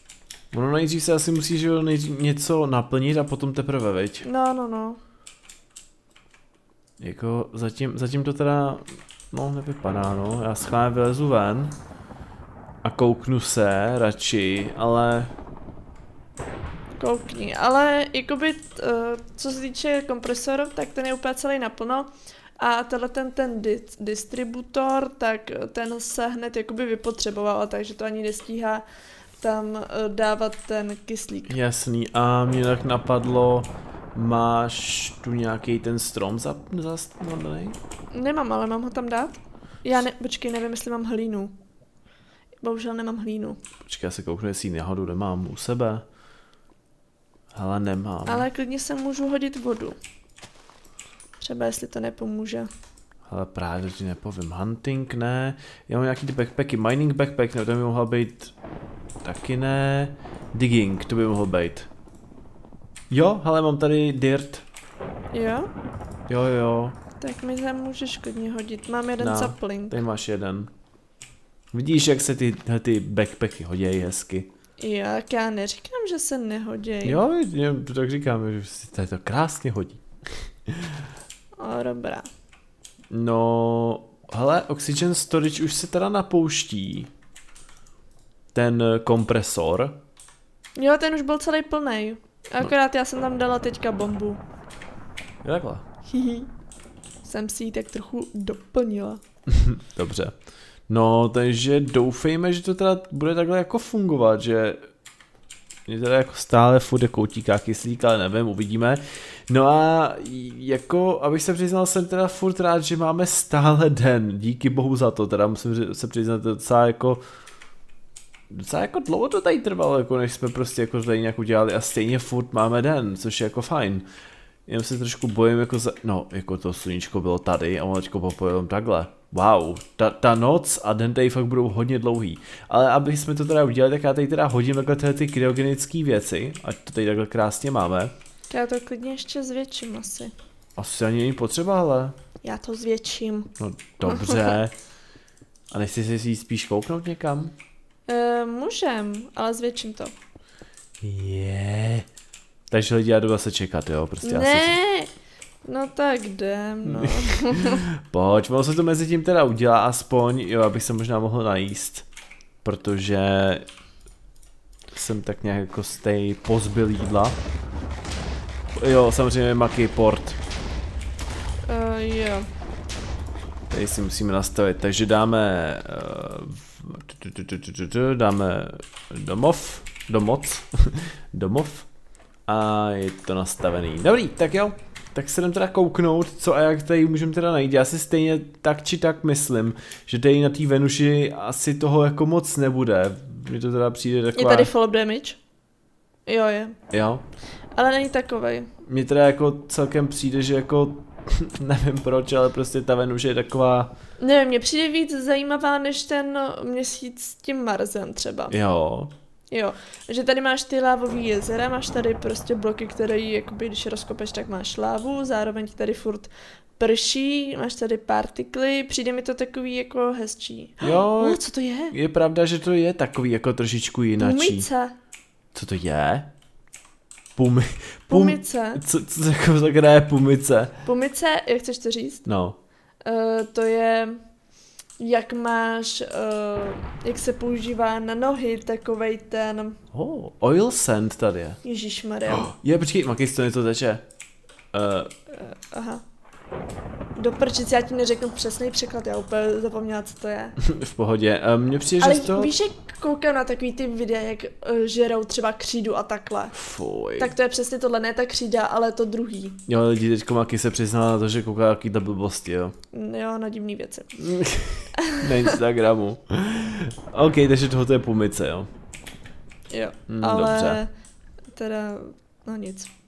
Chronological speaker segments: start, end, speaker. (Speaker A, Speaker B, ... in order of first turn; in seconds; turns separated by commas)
Speaker A: 0.5-4.2, Speaker B: 4.2-5.0, Speaker A: 7.0-11.8, Speaker A: 12.8-15.3, Speaker B: 17.0-28.8, Speaker B: 29.4-31.5, Speaker A: 31.5-37.8, Speaker B: 38.1-41.5, Speaker B: 42.6-43.6, Speaker A: 43.8-46.0, Speaker A: 47.5-48.5, Speaker B: 48.2-50.0, Speaker B: 51.4-52.7, Speaker A: 53.3-58.5, Speaker A: 59.2-61.9, Speaker A: 63.1-64.6, Speaker B: 65.3-65.7, Speaker A: 66.3-67.0, Speaker B: 67.2-70.0, Speaker A: 69.2-70.7, Speaker A: 71.7-74.5, Speaker B: 74.8-77.2, Speaker A: 77.0-81.0, Speaker B: 81.6-82.3, Speaker A: 83.1-87.1, Speaker A: 88.5-90.0, Speaker B: 90.8-94.4, Speaker A: 95.4-95.8, Speaker B: 96.1-96.5, Speaker B: 97.2-99.2, Speaker A: 99.5-100.3, Speaker A: 100.9-104.9, Speaker A: 105.9-117.2, Speaker A: 118.5-124.0, Speaker A: 124.7-138.1, Speaker B: 138.5-140.3, Speaker A: 140.8-142.2, Speaker B: 142.4-143.5, Speaker A: 143.6-144.7, Speaker B: 144.0-144.6, Speaker A: 145.7-147.5, Speaker B: 148.1-150.1, Speaker A: 151.0-152.1, Speaker A: 152.7-154.7, Speaker B: 154.2-155.1, Speaker B: 155.6-157.8, Speaker A: 156.8-162.1, Speaker A: 162.6-163.6, Speaker A: 164.9-167.4, Speaker A: 168.8-170.4, Speaker B: 171.7-172.5, Speaker A: 173.7-181.9, Speaker A: 182.5-194.7, Speaker B: 194.3-195.4, Speaker B: 196.3-196.8, Speaker A: 196.9-197.2, Speaker B: 197.7-198.7, Speaker A: 198.8-203.9, Speaker B: 204.2-208.6, Speaker A: 208.5-209.1, Speaker B: 209.5-221.9, Speaker A: 220.8-224.7, Speaker B: 224.2-224.9, Speaker A: 225.5-226.3, Speaker A: 227.3-230.8, Speaker B: 228.1-228.8, Speaker B: 230.8-232.2, Speaker A: 232.2-232.6, Speaker B: 233.0-234.2, Speaker B: 235.0-239.8, Speaker A: 239.9-241.6, Speaker B: 241.6-242.5, Speaker A: 242.3-244.0, Speaker A: 244.7-245.1, Speaker B: 245.3-246.0, Speaker B: 247.2-250.6, Speaker A: 250.6-252.5, Speaker B: 252.0-256.6, Speaker A: 256.5-257.3, Speaker B: 257.2-259.6, Speaker A: 259.7-262.7, Speaker B: 262.9-264.1, Speaker A: 264.2-268.7, Speaker B: 265.0-265.5, Speaker B: 269.7-270.9, Speaker A: 270.1-270.8, Speaker B: 271.5-272.9